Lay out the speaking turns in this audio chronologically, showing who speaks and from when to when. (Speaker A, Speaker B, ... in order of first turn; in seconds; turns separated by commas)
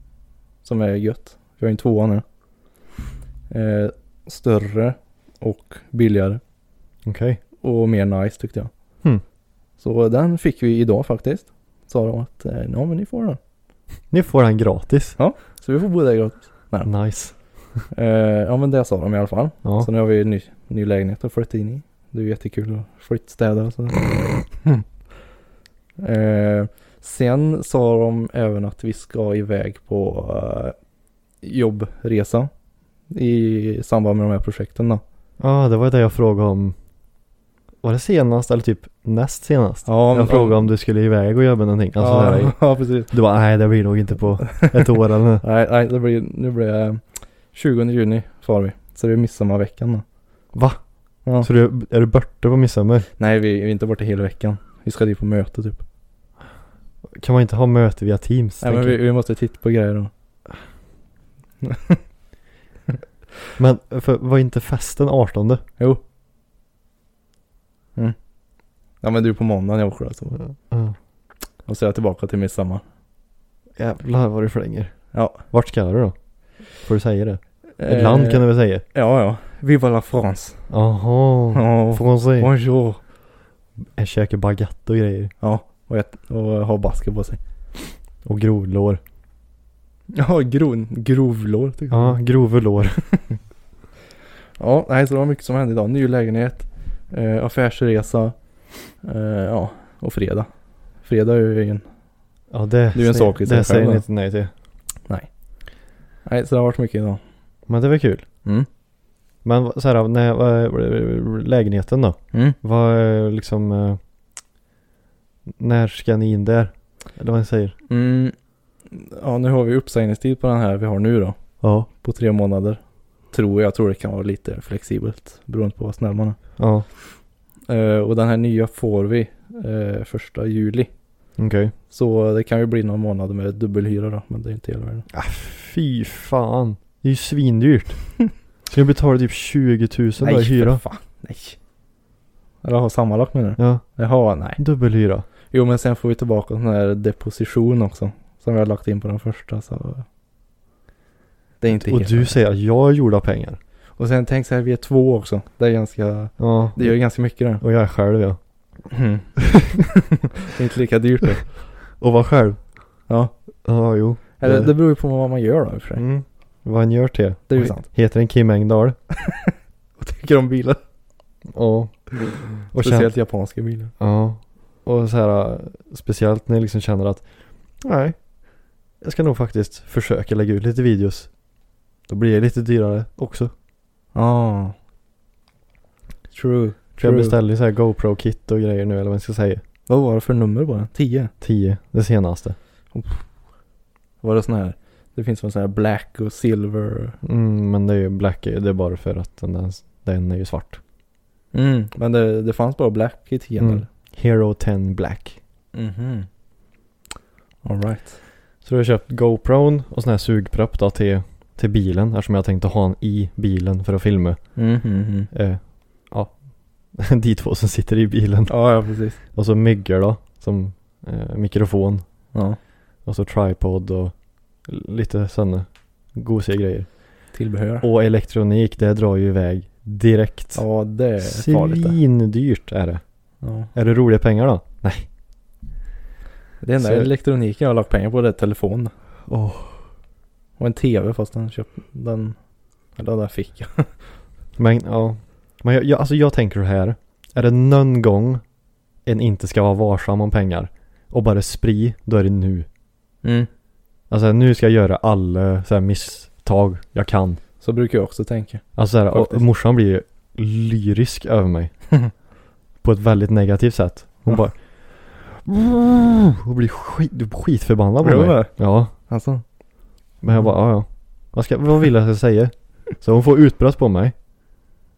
Speaker A: 0.6-2.2, Speaker A: 3.5-6.4, Speaker B: 7.0-7.4, Speaker A: 7.6-8.7, Speaker A: 9.8-13.4, Speaker B: 14.1-15.2, Speaker A: 15.2-16.9, Speaker B: 16.9-17.4, Speaker A: 17.9-24.8, Speaker A: 26.0-30.8, Speaker A: 31.4-32.5, Speaker A: 33.1-35.0, Speaker B: 35.4-36.8, Speaker B: 37.8-45.4, Speaker A: 39.9-40.7, Speaker A: 42.0-43.1, Speaker A: 44.5-50.0, Speaker B: 50.5-50.8, Speaker B: 51.4-53.1, Speaker A: 53.2-55.8, Speaker B: 57.1-59.0, Speaker A: 58.6-60.1, Speaker A: 61.6-62.0, Speaker B: 63.6-65.6, Speaker A: 69.0-70.4, Speaker B: 70.5-71.0, Speaker A: 71.7-72.8, Speaker B: 73.8-78.8, Speaker A: 75.1-75.4, Speaker A: 77.8-80.7, Speaker B: 80.7-82.5, Speaker A: 81.5-83.0, Speaker B: 84.0-85.3, Speaker A: 85.4-87.4, Speaker B: 88.2-89.0, Speaker A: 90.1-92.2, Speaker B: 91.9-93.0, Speaker A: 94.6-98.4, Speaker A: 99.0-101.9, Speaker B: 102.5-104.5, Speaker A: 102.9-104.1, Speaker A: 106.2-107.2, Speaker B: 107.7-108.2, Speaker B: 109.4-114.0, Speaker B: 115.5-117.8, Speaker A: 117.9-118.3, Speaker A: 118.9-121.4, Speaker B: 121.6-121.9, Speaker A: 122.0-126.4, Speaker B: 126.6-126.9, Speaker A: 127.7-130.9, Speaker B: 131.4-131.7, Speaker A: 131.9-135.1, Speaker B: 135.1-140.8, Speaker A: 140.2-141.6, Speaker A: 142.6-144.6, Speaker B: 143.6-144.0, Speaker B: 144.5-145.3, Speaker A: 145.5-150.1, Speaker A: 151.6-152.4, Speaker B: 151.7-153.6, Speaker A: 154.0-157.6, Speaker B: 156.4-158.4, Speaker A: 158.9-159.9, Speaker A: 160.4-161.5, Speaker B: 162.0-162.6, Speaker A: 163.1-163.3, Speaker B: 163.7-164.7, Speaker A: 164.4-166.0, Speaker B: 166.0-169.0, Speaker A: 167.5-167.9, Speaker A: 169.2-170.8, Speaker B: 171.5-173.1, Speaker A: 172.8-173.9, Speaker B: 174.0-177.3, Speaker B: 177.8-178.2, Speaker B: 179.0-181.3, Speaker B: 182.1-183.5, Speaker A: 184.1-184.8, Speaker A: 186.3-187.4, Speaker B: 187.0-189.6, Speaker A: 189.9-191.3, Speaker B: 191.4-192.6, Speaker A: 192.9-193.3, Speaker A: 194.2-197.2, Speaker B: 197.2-200.8, Speaker A: 201.5-203.9, Speaker B: 203.6-205.4, Speaker A: 205.7-206.3, Speaker A: 207.6-208.2, Speaker B: 208.6-214.6, Speaker A: 214.6-215.3, Speaker B: 215.3-216.3, Speaker B: 216.9-218.6, Speaker A: 218.5-219.2, Speaker B: 219.3-222.1, Speaker A: 222.3-222.6, Speaker B: 223.0-227.0, Speaker A: 227.3-227.9, Speaker B: 227.8-230.7, Speaker A: 230.5-232.0, Speaker B: 231.2-233.0, Speaker A: 233.4-233.7, Speaker B: 233.7-235.1, Speaker A: 236.6-238.9, Speaker B: 236.8-237.1, Speaker B: 239.3-239.8, Speaker A: 240.6-242.4, Speaker A: 242.9-243.9, Speaker B: 244.6-248.4, Speaker B: 249.1-252.7, Speaker A: 253.2-253.5, Speaker B: 254.1-257.4, Speaker A: 257.6-259.4, Speaker B: 258.8-261.7, Speaker B: 262.8-268.9, Speaker A: 268.0-269.4, Speaker B: 270.2-274.1